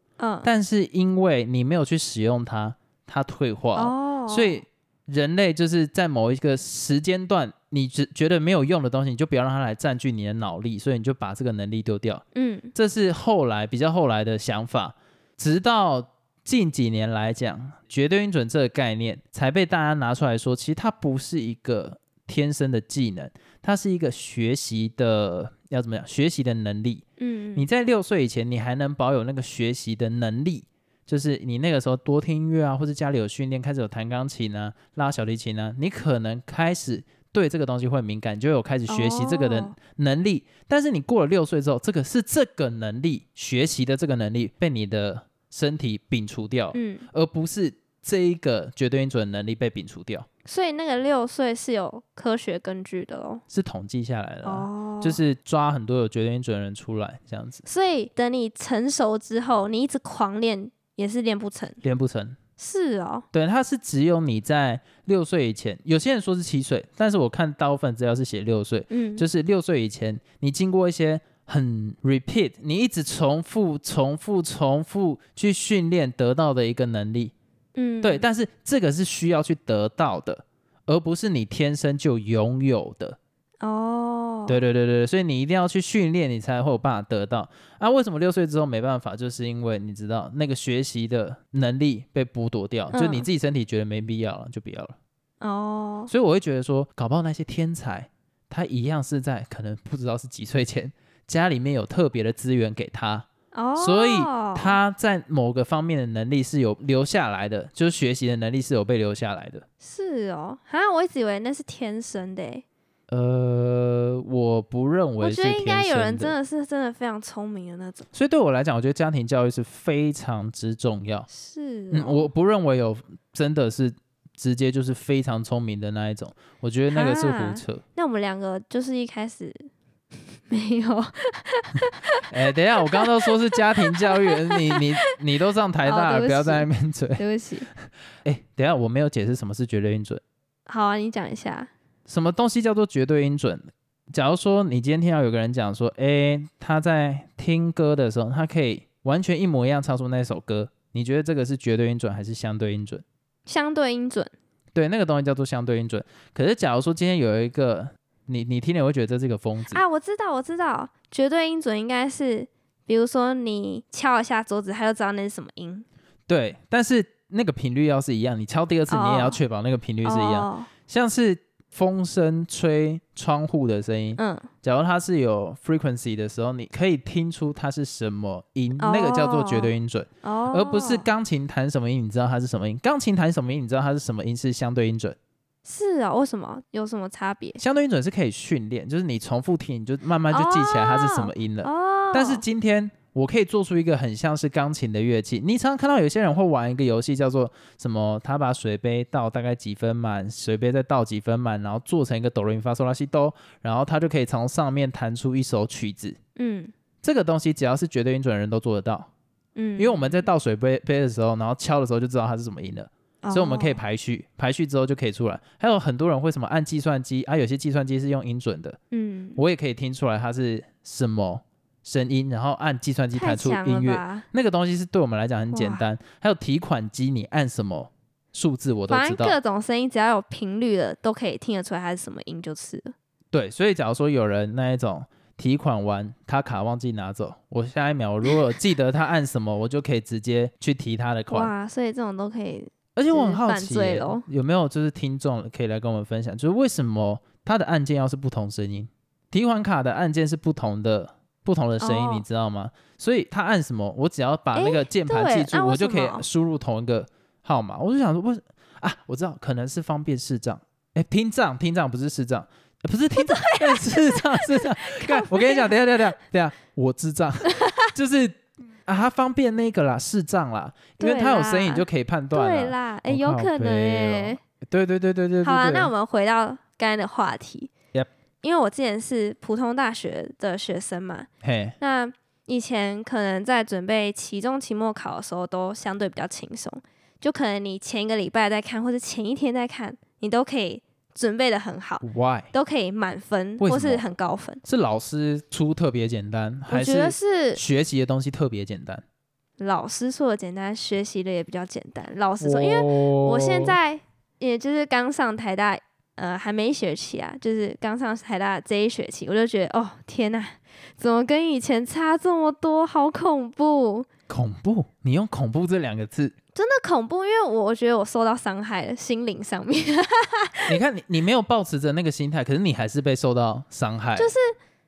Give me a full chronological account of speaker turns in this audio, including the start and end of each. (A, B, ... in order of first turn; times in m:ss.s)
0:00.2-0:00.5 A
0:00.4-0:12.2 B
0:03.8-0:04.6 A
0:12.4-0:12.7 A
0:12.8-0:27.0 B
0:27.2-0:27.7 A
0:27.6-0:50.3 B
0:38.9-0:39.8 A
0:46.7-0:47.1 A
0:50.5-0:53.4 A
0:53.5-0:57.6 B
0:54.4-0:55.2 A
0:57.7-1:01.8 A
1:01.8-1:02.4 B
1:02.6-1:03.3 A
1:03.3-1:17.3 B
1:08.9-1:09.2 A
1:17.8-1:18.2 A
1:18.0-1:23.2 B
1:23.6-1:24.6 A
1:24.5-1:35.0 B
1:32.9-1:33.3 A
1:35.4-1:36.1 A
1:36.1-1:49.6 B
1:43.5-1:44.8 A
1:49.8-1:52.6 A
1:53.1-1:56.4 B
1:55.2-1:58.0 A
1:58.1-2:01.3 B
2:01.3-2:02.3 A
2:01.9-2:07.8 B
2:06.9-2:09.6 A
2:10.5-2:12.3 A
2:12.3-2:17.2 B
2:12.8-2:15.1 A
2:15.8-2:17.7 A
2:18.2-2:20.2 B
2:20.7-2:21.7 A
2:22.1-2:33.0 B
2:33.5-2:34.3 A
2:34.7-2:39.8 B
2:39.7-2:45.9 A
2:46.3-3:05.2 B
2:48.9-2:49.4 A
2:50.0-2:50.7 A
2:54.2-2:54.5 A
2:58.8-3:01.1 A
3:05.6-3:07.6 A
3:07.6-3:26.2 B
3:10.3-3:12.4 A
3:26.4-3:26.7 A
3:27.0-3:29.1 B
3:29.6-3:30.3 A
3:29.8-3:38.8 B
3:33.2-3:33.8 A
3:38.9-3:39.4 A
3:39.4-3:49.4 B
3:43.2-3:44.3 A
3:45.5-3:45.9 A
3:48.9-3:53.0 A
3:53.3-4:01.5 B
4:01.3-4:04.3 A
4:03.0-4:35.9 B
4:11.8-4:12.2 A
4:14.6-4:16.2 A
4:23.2-4:25.7 A
4:27.5-4:27.9 A
4:31.0-4:34.4 A
4:35.4-4:37.7 A
4:38.4-4:41.3 A
4:41.4-4:41.8 B
4:41.8-4:54.6 A
4:52.0-4:52.5 B
4:53.6-4:54.0 B
4:54.6-4:59.0 B
4:56.7-4:57.6 A
4:59.6-5:14.1 A
5:02.4-5:03.8 B
5:14.3-5:16.3 B
5:16.6-5:20.8 A
5:20.7-5:24.3 B
5:24.2-5:24.5 A